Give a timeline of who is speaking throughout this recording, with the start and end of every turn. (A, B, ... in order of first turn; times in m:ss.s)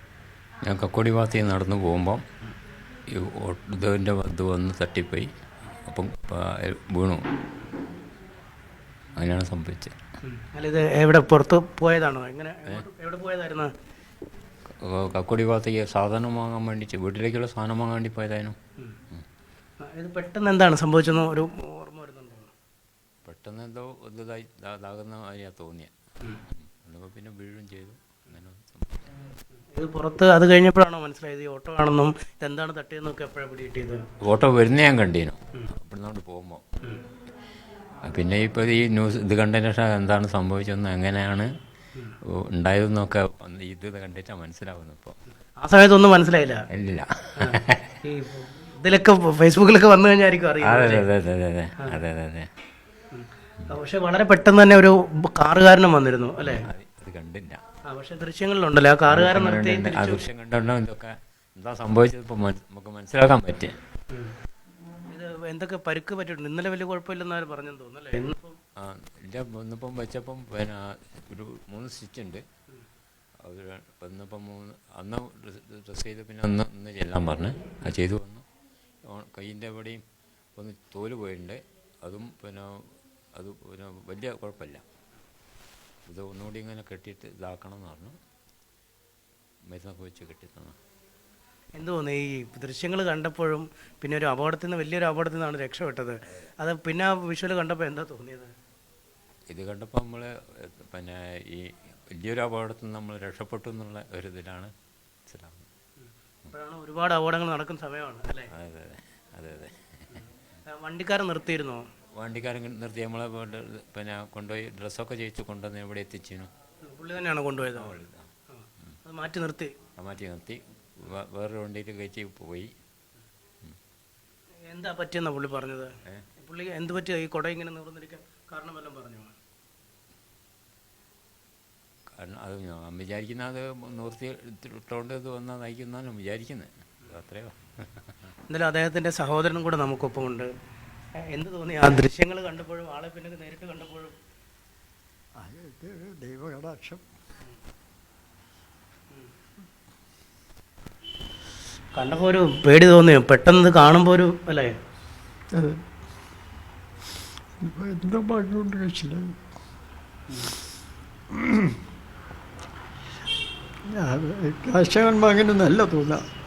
0:00.7-0:02.2 A
0:03.1-0:05.3 A
0:05.8-0:07.2 A
0:09.2-0:09.9 A
0:10.2-0:13.7 B
0:14.8-0:18.6 A
0:19.8-0:22.5 B
0:23.2-0:25.9 A
0:26.5-0:29.1 A
0:29.8-0:34.0 B
0:34.2-0:36.6 A
0:38.0-0:41.5 A
0:42.5-0:45.1 A
0:45.6-0:46.6 B
0:46.7-0:48.0 A
0:47.4-0:51.1 B
0:50.6-0:52.5 A
0:53.1-0:56.7 B
0:56.4-0:57.6 A
0:57.9-1:00.2 B
0:59.1-1:03.7 A
1:05.1-1:08.6 B
1:08.8-1:12.4 A
1:13.4-1:18.4 A
1:19.1-1:20.0 A
1:20.6-1:22.7 A
1:23.4-1:24.8 A
1:26.1-1:28.1 A
1:29.7-1:30.8 A
1:31.8-1:38.5 B
1:39.5-1:44.7 A
1:45.3-1:45.7 A
1:46.5-1:48.5 B
1:48.5-1:50.2 A
1:50.7-1:51.8 B
1:52.1-1:56.5 A
1:56.8-1:58.0 B
1:57.7-1:58.3 A
1:58.5-1:59.7 B
2:00.0-2:02.7 A
2:04.7-2:09.4 B
2:12.2-2:18.1 A
2:18.5-2:20.5 B
2:21.3-2:24.2 B
2:25.4-2:27.0 C
2:32.0-2:34.7 B
2:35.5-2:35.8 C
2:37.6-2:39.4 C
2:41.3-2:41.8 C
2:43.9-2:46.2 C